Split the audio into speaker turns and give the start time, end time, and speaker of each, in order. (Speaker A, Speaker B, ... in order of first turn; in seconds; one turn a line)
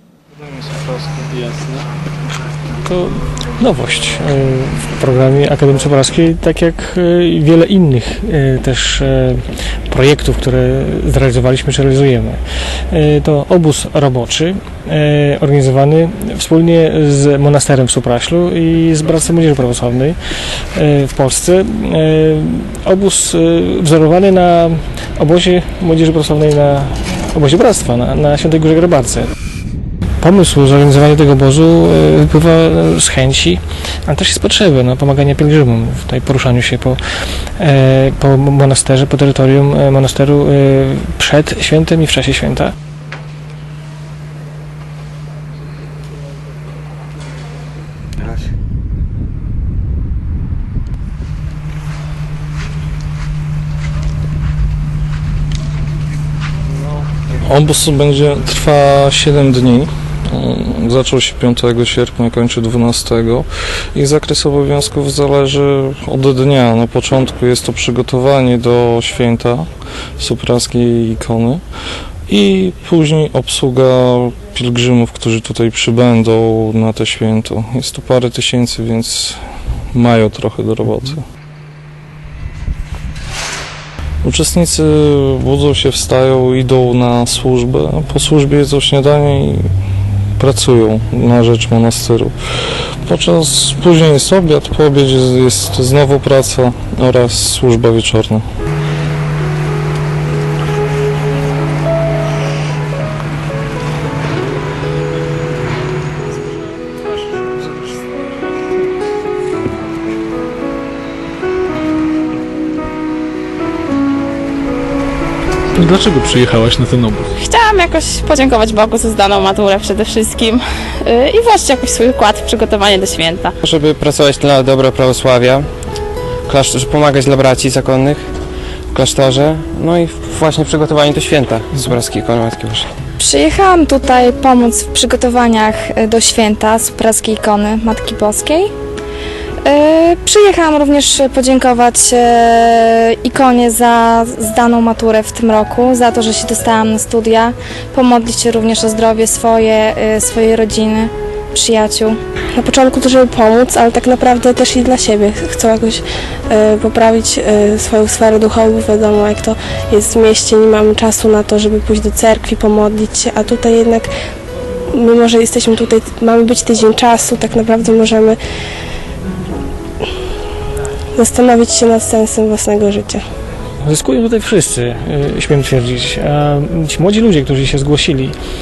Speaker A: 1.1-1.8
Speaker B: 2.8-20.1
Speaker B: 20.7-29.3
Speaker B: 30.2-37.0
Speaker B: 37.6-42.7
Speaker C: 57.5-71.6
Speaker C: 72.3-79.4
Speaker C: 79.9-81.2
Speaker C: 84.2-89.7
Speaker C: 90.4-92.3
Speaker C: 93.0-98.4
Speaker A: 115.7-117.3
Speaker D: 117.4-123.5
Speaker E: 123.6-125.7
Speaker E: 126.5-128.3
Speaker E: 128.9-132.9
Speaker F: 133.2-138.7
Speaker F: 139.6-152.2
Speaker G: 152.6-164.1
Speaker G: 164.9-168.4
Speaker G: 171.2-173.2
Speaker B: 173.8-178.3